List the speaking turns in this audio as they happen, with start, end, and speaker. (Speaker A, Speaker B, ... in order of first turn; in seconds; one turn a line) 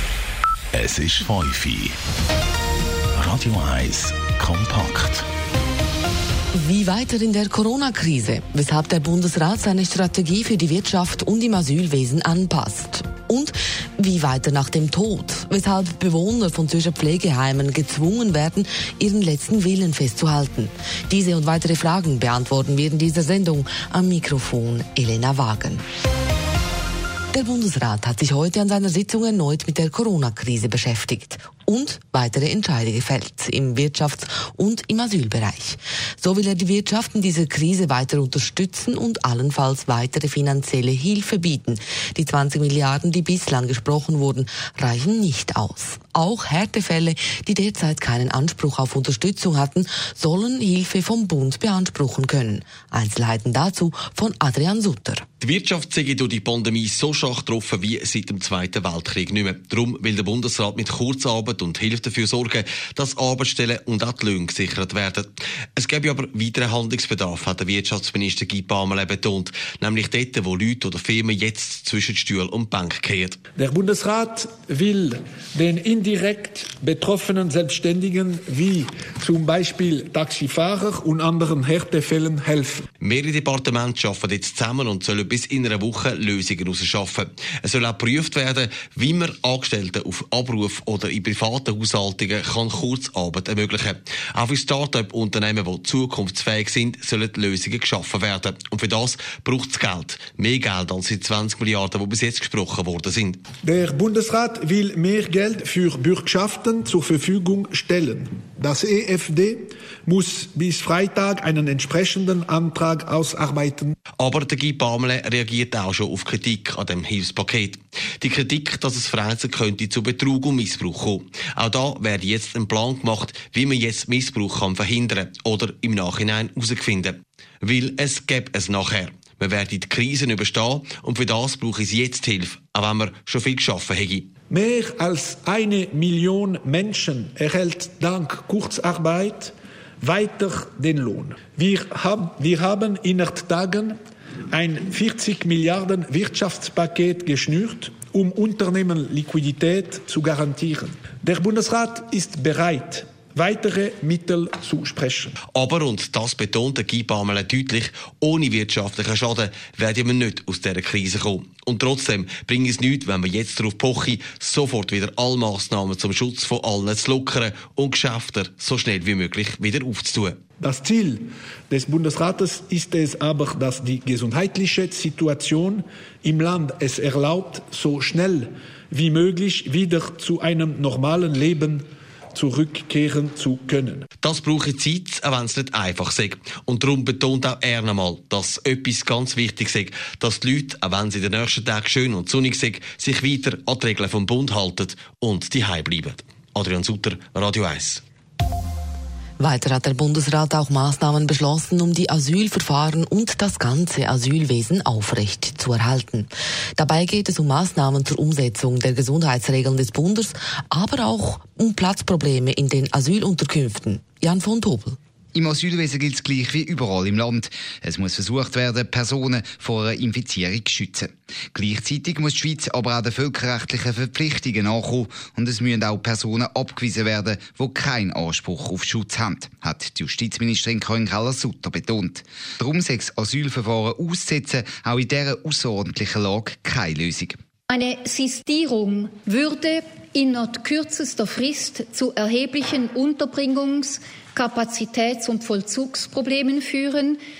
Speaker A: 0.7-1.9
Speaker A: 3.2-5.2
Speaker B: 6.5-25.8
Speaker B: 27.3-55.2
Speaker C: 55.4-73.4
Speaker D: 73.5-82.8
Speaker C: 83.0-103.4
Speaker D: 103.6-113.9
Speaker C: 114.2-134.3
Speaker D: 134.5-144.0
Speaker D: 144.5-155.3
Speaker C: 155.5-170.4
Speaker D: 170.6-184.0
Speaker C: 184.2-198.0
Speaker B: 199.4-215.0
Speaker E: 215.3-237.4
Speaker F: 237.7-247.2